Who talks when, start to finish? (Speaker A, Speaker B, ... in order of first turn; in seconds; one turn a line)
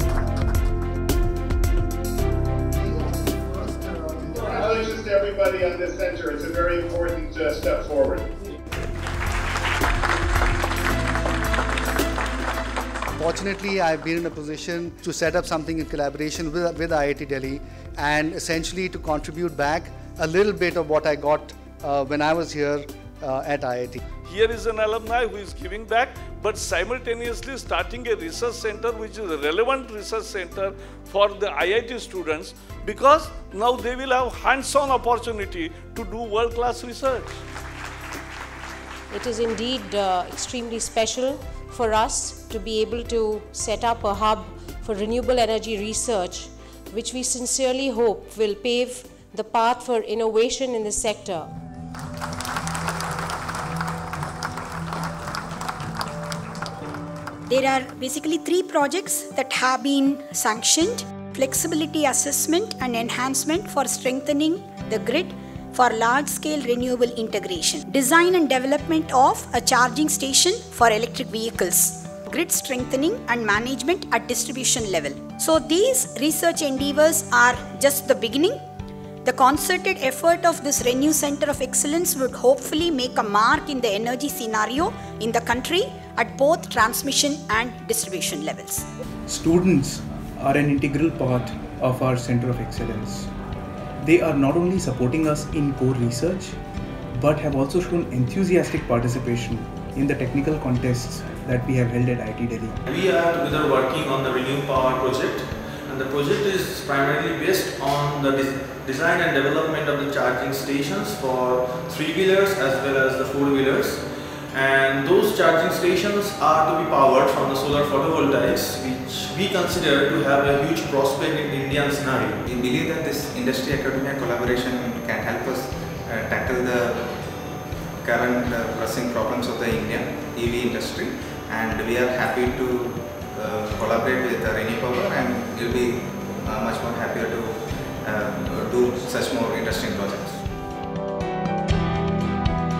Speaker A: 2.8-4.9
Speaker B: 4.5-8.2
Speaker A: 13.2-24.0
Speaker C: 24.3-37.4
Speaker D: 39.1-51.5
Speaker E: 57.5-78.6
Speaker E: 79.2-88.8
Speaker F: 89.3-93.3
Speaker F: 94.0-96.6
Speaker F: 97.1-102.8
Speaker G: 102.9-114.0
Speaker G: 114.5-122.4
Speaker H: 122.5-127.1
Speaker H: 128.0-140.4